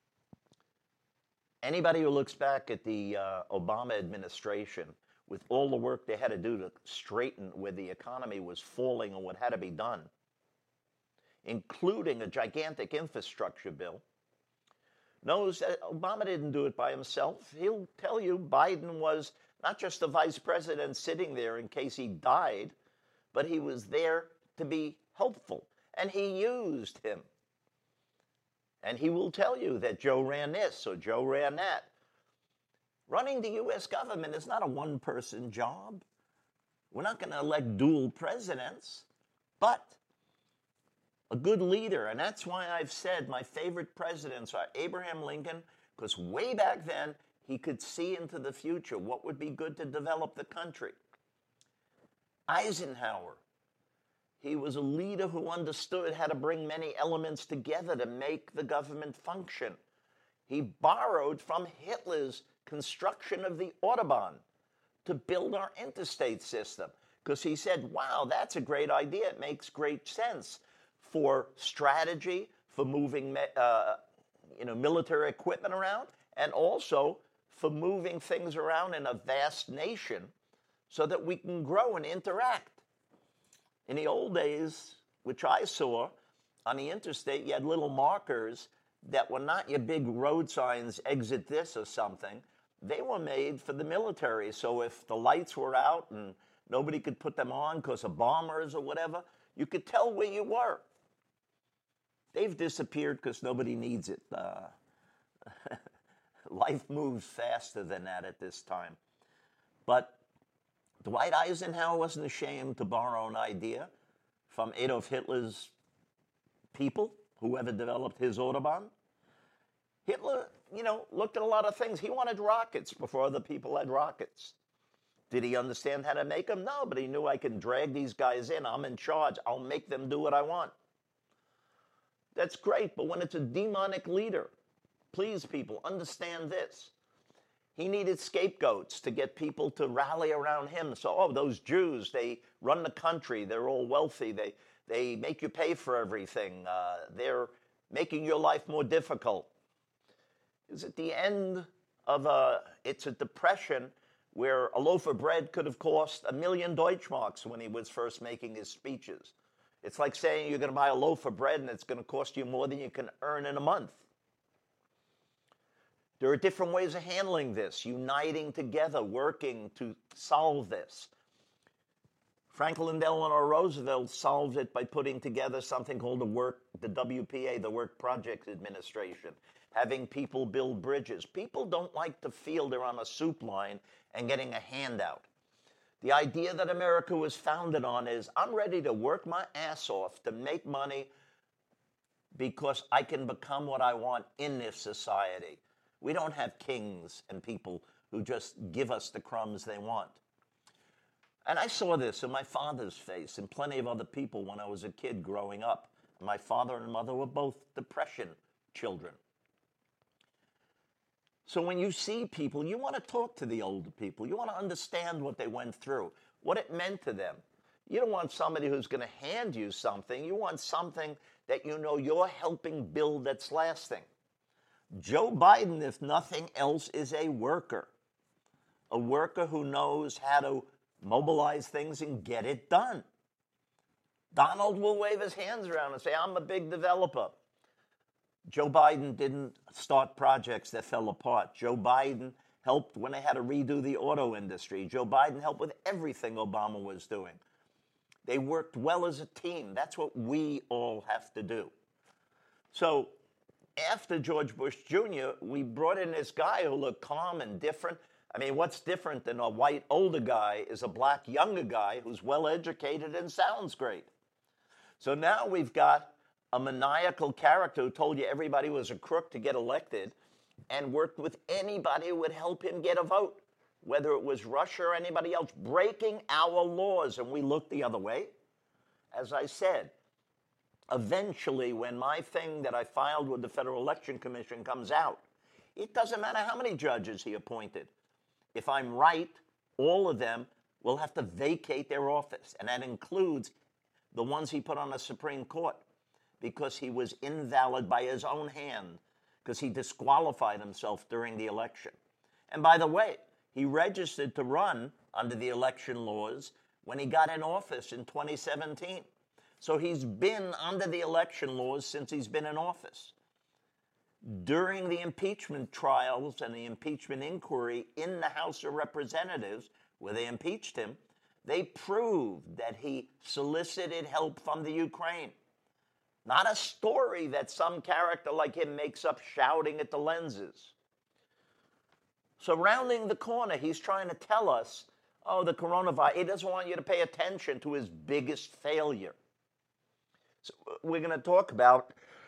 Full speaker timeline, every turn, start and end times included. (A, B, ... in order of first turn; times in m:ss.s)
0:01.6-0:10.1 A
0:11.4-0:14.0 A
0:15.2-0:22.7 A
0:23.3-0:27.2 A
0:28.8-0:31.9 A
0:33.1-0:36.0 A
0:36.9-0:39.0 A
0:39.6-0:40.0 A
0:41.3-0:51.0 A
0:52.5-0:53.4 A
0:54.4-0:59.8 A
1:00.5-1:04.4 A
1:05.0-1:14.0 A
1:14.5-1:20.3 A
1:20.9-1:22.8 A
1:23.9-1:26.1 A
1:26.6-1:40.8 A
1:42.3-1:44.7 A
1:46.5-1:49.0 A
1:49.9-1:50.2 A
1:51.0-1:53.9 A
1:54.5-1:55.7 A
1:56.7-1:58.9 A
2:00.0-2:04.5 A
2:05.3-2:10.7 A
2:12.3-2:14.5 A
2:15.1-2:16.9 A
2:17.7-2:29.5 A
2:30.7-2:44.0 A
2:46.2-2:51.1 A
2:52.5-3:05.2 A
3:06.0-3:11.1 A
3:12.3-3:20.2 A
3:21.4-3:29.2 A
3:31.4-3:44.0 A
3:44.9-3:47.9 A
3:48.9-3:53.0 A
3:54.3-3:57.4 A
3:58.4-4:07.4 A
4:08.2-4:11.7 A
4:12.7-4:13.1 A
4:13.8-4:24.1 A
4:25.0-4:30.1 A
4:30.7-4:38.3 A
4:39.1-4:39.9 A
4:40.9-4:45.2 A
4:45.8-4:47.9 A
4:48.5-4:53.5 A
4:54.1-4:55.8 A
4:56.4-5:02.0 A
5:02.5-5:09.1 A
5:09.6-5:13.1 A
5:14.2-5:25.3 A
5:26.2-5:30.7 A
5:32.4-5:39.2 A
5:40.4-5:42.0 A